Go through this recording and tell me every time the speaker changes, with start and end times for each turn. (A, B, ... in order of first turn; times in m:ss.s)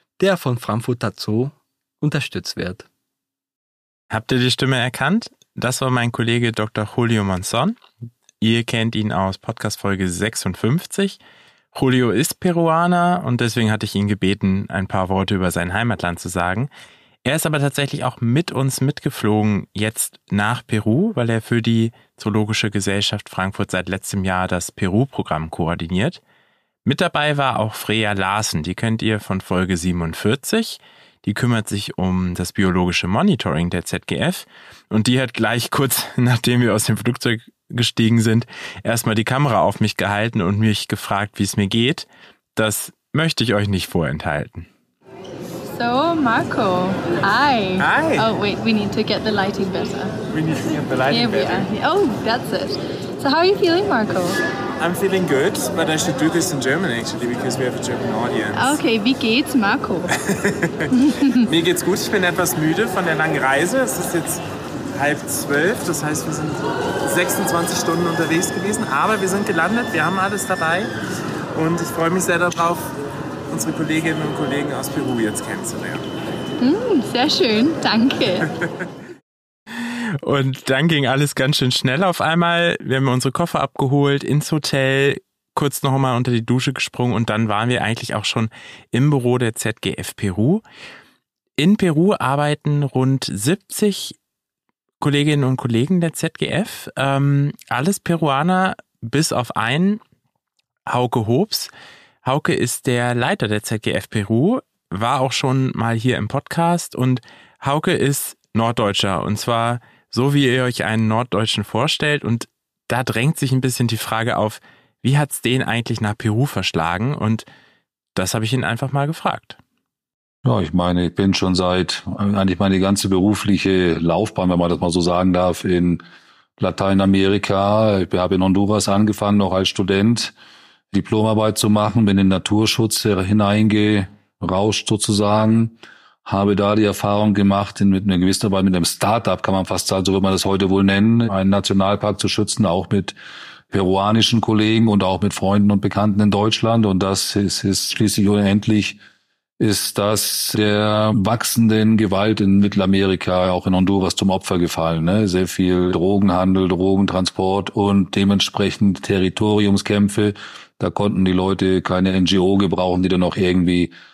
0:00.2-0:02.8 A
0:04.1-0:07.8 B
0:08.4-0:11.2 B
0:11.7-0:16.7 B
0:17.2-0:26.2 B
0:26.8-0:44.7 B
0:45.7-0:50.2 C
0:47.8-0:48.3 D
0:50.3-0:51.6 D
0:51.1-0:54.4 C
0:54.8-0:58.8 D
0:58.5-1:00.1 C
1:00.3-1:00.9 D
1:00.9-1:01.4 C
1:01.4-1:04.4 D
1:04.9-1:10.9 D
1:11.5-1:12.9 D
1:13.5-1:16.0 D
1:16.6-1:18.5 C
1:19.8-1:30.6 B
1:31.6-1:34.2 B
1:35.0-1:40.0 B
1:40.9-1:41.7 B
1:42.2-1:57.5 B
1:58.2-1:59.6 B
2:00.4-2:06.0 E
2:06.6-2:10.3 E
2:10.9-2:23.2 E
2:23.7-2:29.0 E
2:29.6-2:43.9 E